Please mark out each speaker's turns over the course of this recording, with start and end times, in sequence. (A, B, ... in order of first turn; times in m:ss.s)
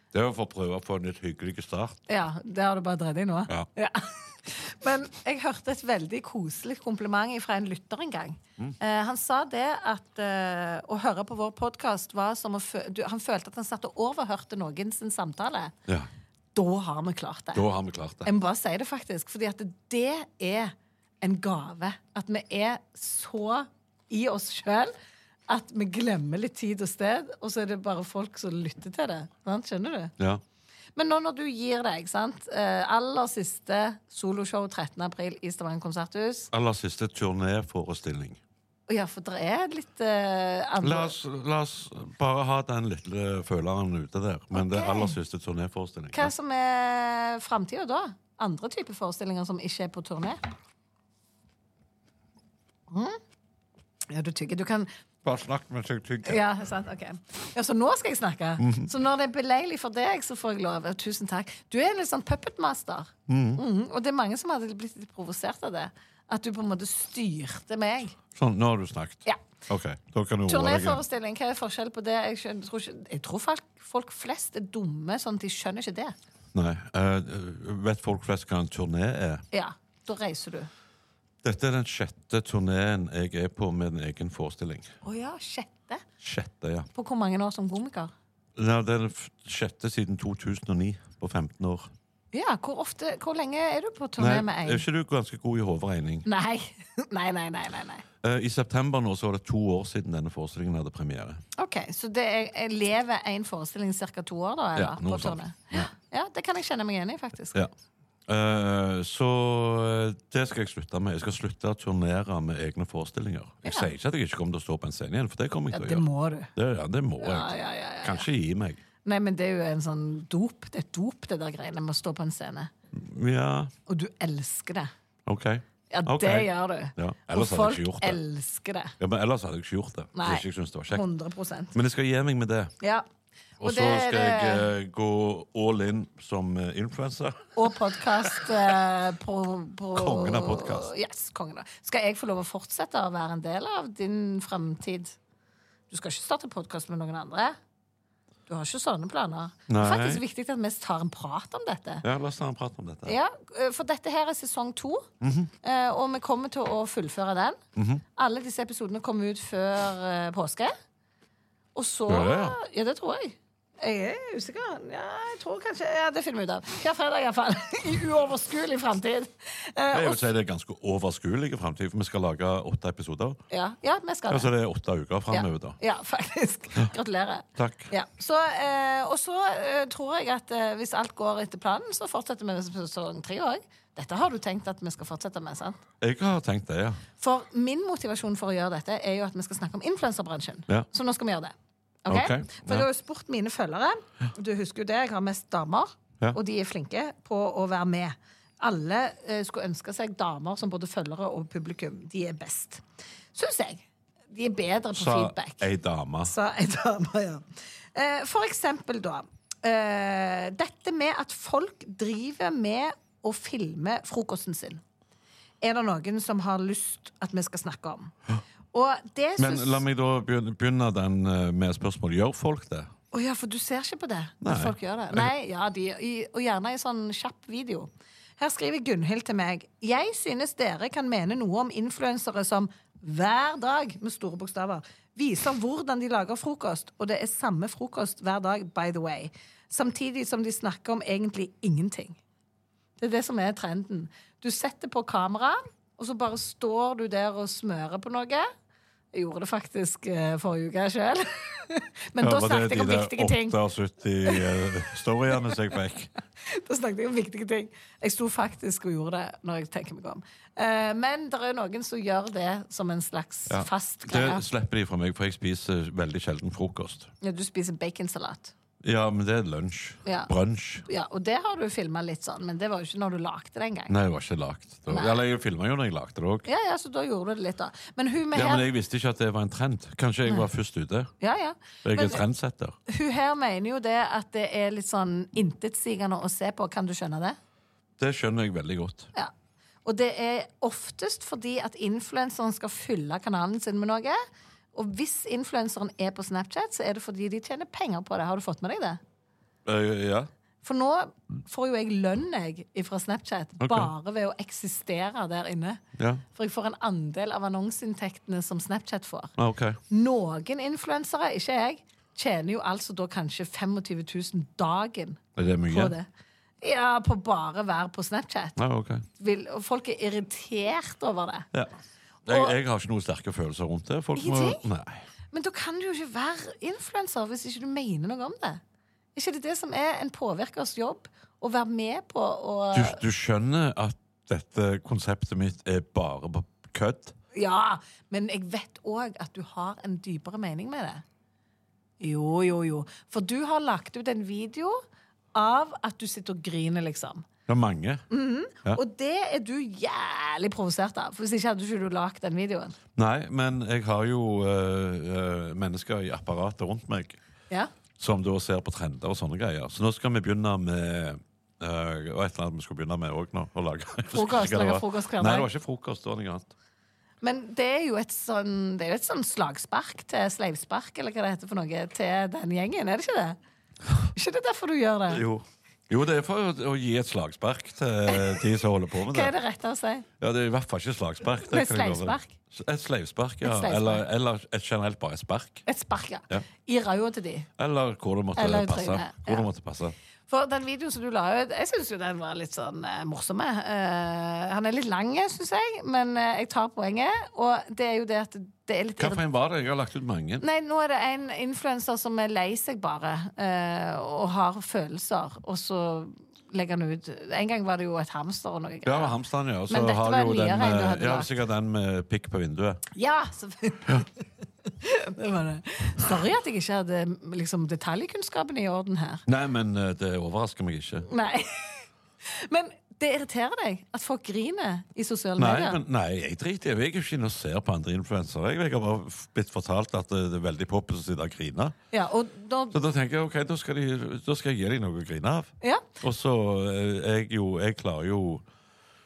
0:00.1-0:02.0 A
0:02.1-0:15.7 B
0:16.6-0:17.6 B
0:17.5-0:18.3 A
0:18.2-0:24.9 B
0:25.5-0:30.1 B
0:31.0-0:36.5 B
0:36.5-0:38.4 A
0:38.9-0:41.2 B
0:40.8-0:46.3 A
0:44.5-0:45.2 B
0:46.1-0:50.4 B
0:52.9-0:53.2 B
0:54.1-0:54.9 B
0:55.2-0:56.4 A
0:56.2-1:08.2 B
0:58.6-0:58.9 A
1:03.3-1:03.6 A
1:08.4-1:11.0 A
1:10.5-1:16.2 B
1:16.5-1:19.4 A
1:19.5-1:20.7 B
1:21.4-1:24.9 A
1:25.0-1:26.0 B
1:26.2-1:26.9 A
1:26.9-1:28.1 B
1:28.6-1:31.9 A
1:32.3-1:34.8 B
1:34.2-1:36.3 A
1:36.3-1:38.0 B
1:38.2-1:41.4 A
1:41.6-1:47.6 B
1:44.8-1:45.9 A
1:48.3-1:58.8 A
1:53.6-1:53.9 B
1:55.7-1:56.5 B
1:57.2-1:58.3 B
1:59.0-2:02.7 B
2:02.9-2:03.7 A
2:03.9-2:04.9 B
2:05.3-2:08.2 A
2:05.9-2:08.9 B
2:09.0-2:11.0 A
2:10.2-2:11.8 B
2:11.7-2:12.7 A
2:13.6-2:17.6 A
2:13.6-2:14.7 B
2:17.6-2:25.2 B
2:20.0-2:20.9 A
2:25.9-2:27.6 B
2:28.5-2:32.0 B
2:29.7-2:30.2 A
2:32.0-2:33.2 A
2:33.1-2:35.1 B
2:35.2-2:35.5 A
2:35.6-2:37.6 B
2:37.8-2:38.0 A
2:38.2-2:40.7 B
2:41.8-2:50.2 B
2:42.1-2:42.6 A
2:49.9-2:53.4 A
2:53.5-2:54.5 B
2:54.3-2:55.8 A
2:55.3-3:05.8 B
2:57.6-2:57.9 A
3:06.0-3:07.0 A
3:07.2-3:11.5 B
3:12.0-3:22.8 B
3:12.1-3:12.9 A
3:23.3-3:25.6 B
3:24.9-3:26.3 A
3:26.2-3:27.4 B
3:28.0-3:34.8 B
3:35.6-3:38.1 B
3:38.7-3:39.8 B
3:39.4-3:42.9 A
3:43.1-4:02.2 B
3:44.4-3:45.3 A
4:03.0-4:08.5 B
4:09.1-4:13.6 B
4:12.2-4:16.1 A
4:16.4-4:24.4 B
4:23.5-4:27.1 A
4:27.2-4:28.5 B
4:28.8-4:30.9 A
4:30.0-4:30.3 B
4:30.9-4:33.9 B
4:33.9-4:36.5 A
4:34.9-4:35.2 B
4:36.5-4:38.7 B
4:38.3-4:41.1 A
4:41.2-4:42.2 B
4:41.8-4:42.8 A
4:42.9-4:47.4 B
4:48.0-4:49.1 A
4:49.8-4:54.2 B
4:54.7-4:59.0 B
4:59.6-5:00.3 A
5:00.6-5:05.8 B
5:03.6-5:03.9 A
5:06.0-5:06.2 A
5:06.4-5:09.3 B
5:09.4-5:09.8 A
5:09.9-5:16.1 B
5:15.4-5:16.0 A
5:16.6-5:18.6 B
5:18.6-5:19.0 A
5:19.2-5:21.5 B
5:22.3-5:25.1 A
5:22.3-5:22.5 B
5:24.2-5:24.6 B
5:25.3-5:28.6 B
5:29.2-5:33.0 B
5:32.7-5:37.2 A
5:37.3-5:41.0 B
5:42.0-5:44.8 B
5:45.4-5:47.3 B
5:47.5-5:48.0 A
5:48.1-5:52.8 B
5:53.0-5:57.2 A
5:58.0-6:06.5 A
6:04.1-6:05.5 B
6:07.2-6:13.4 B
6:14.2-6:15.2 B
6:15.1-6:19.3 A
6:18.1-6:18.4 B
6:19.1-6:20.0 B
6:20.2-6:25.6 A
6:21.5-6:22.3 B
6:23.4-6:24.0 B
6:25.7-6:27.5 B
6:27.6-6:30.0 A
6:28.4-6:29.5 B
6:30.3-6:39.2 B
6:39.0-6:40.4 A
6:40.4-6:49.2 B
6:48.8-6:52.8 A
6:49.7-6:51.3 B
6:53.0-6:54.0 B
6:54.8-6:59.2 B
6:59.3-7:01.1 A
7:01.1-7:05.8 B
7:05.4-7:11.8 A
7:11.9-7:12.8 B
7:12.7-7:18.4 A